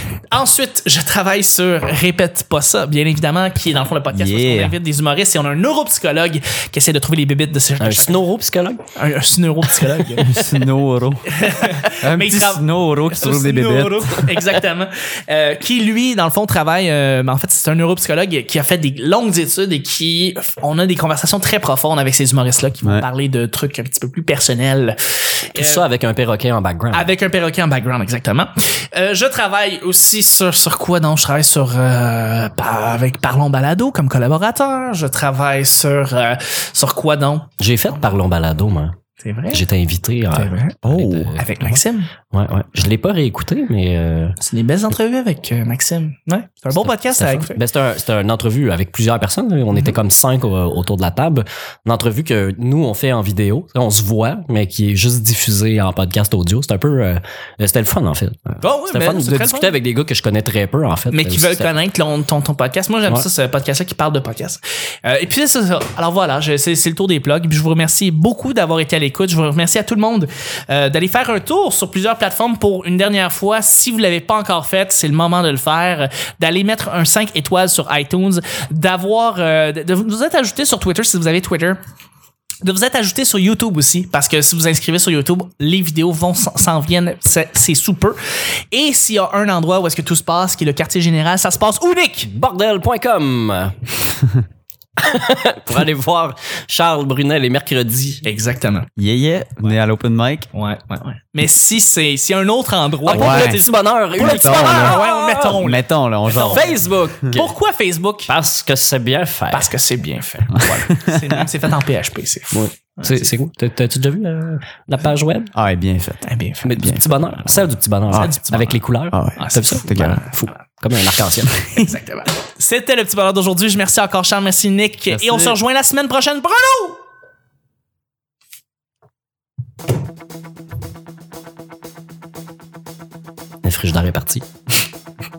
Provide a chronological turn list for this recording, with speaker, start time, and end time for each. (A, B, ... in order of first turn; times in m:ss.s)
0:00.3-0:08.2 A
0:04.1-0:04.8 B
0:07.8-0:08.8 C
0:09.0-0:10.4 A
0:10.2-0:14.2 B
0:11.3-0:25.0 A
0:25.5-0:25.8 A
0:25.6-0:27.1 C
0:26.9-0:37.5 A
0:37.6-0:39.0 C
0:39.2-0:39.6 A
0:39.5-0:41.5 C
0:40.3-0:40.8 A
0:40.8-0:41.4 B
0:41.4-0:42.1 A
0:42.3-0:44.4 C
0:44.4-0:47.6 A
0:46.7-1:01.7 C
0:58.6-0:59.8 A
1:01.1-1:21.8 A
1:22.6-1:28.2 A
1:28.7-1:32.3 A
1:32.2-1:33.8 C
1:35.0-1:38.2 C
1:38.2-1:38.9 A
1:39.0-1:40.5 B
1:40.5-1:43.6 A
1:43.1-1:45.6 C
1:43.1-1:43.6 B
1:44.2-1:46.7 A
1:44.2-1:46.7 B
1:46.4-1:47.5 C
1:47.3-1:48.3 A
1:48.3-1:49.7 C
1:49.5-1:53.3 A
1:50.5-1:51.5 B
1:52.5-1:55.5 C
1:55.5-1:56.3 B
1:56.3-1:57.0 A
1:56.6-2:01.6 C
1:56.8-1:57.1 B
1:58.2-1:58.8 A
1:59.1-2:00.2 B
1:59.4-2:00.5 A
2:01.7-2:07.0 A
2:05.1-2:05.6 B
2:13.6-2:14.4 C